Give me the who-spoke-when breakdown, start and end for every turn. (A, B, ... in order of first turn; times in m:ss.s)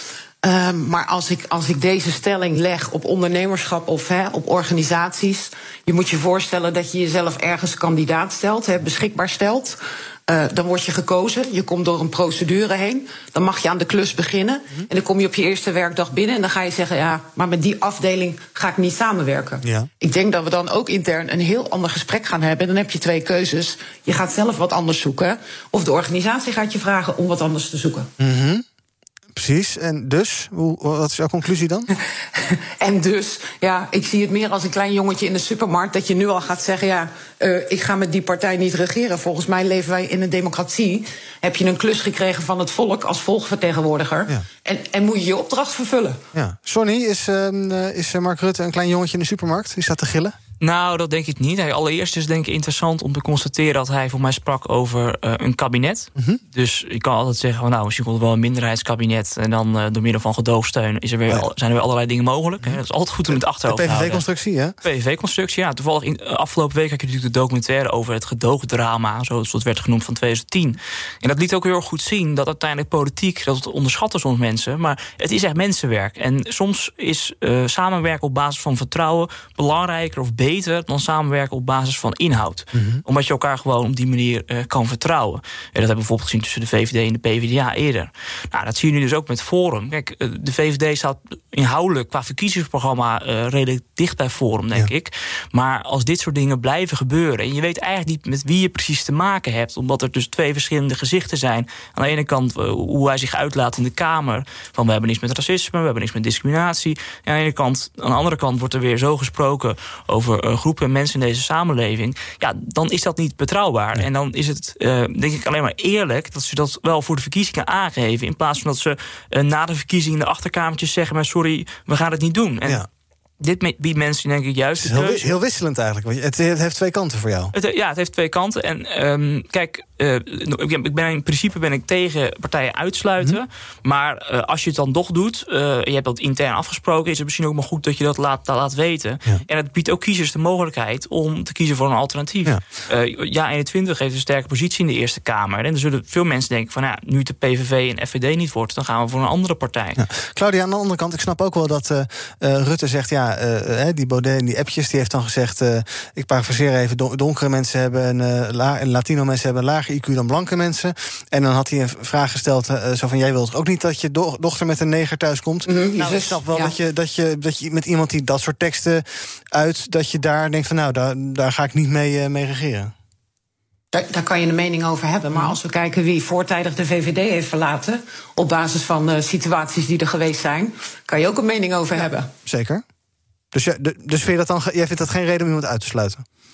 0:00.4-0:28.1 A
0:19.6-0:19.9 B
0:28.2-0:28.6 B
0:29.3-0:31.9 B
0:32.3-0:46.2 A
0:46.3-0:50.4 B
0:50.6-1:04.2 C
1:03.7-1:04.7 B
1:04.8-2:02.8 C
1:22.7-1:23.0 B
2:03.4-2:05.3 C
2:04.8-2:07.5 B
2:07.5-2:30.0 C
2:30.0-2:52.9 B
2:45.6-2:46.7 A
2:53.9-3:02.3 A
3:02.4-3:02.8 B
3:03.5-3:06.2 B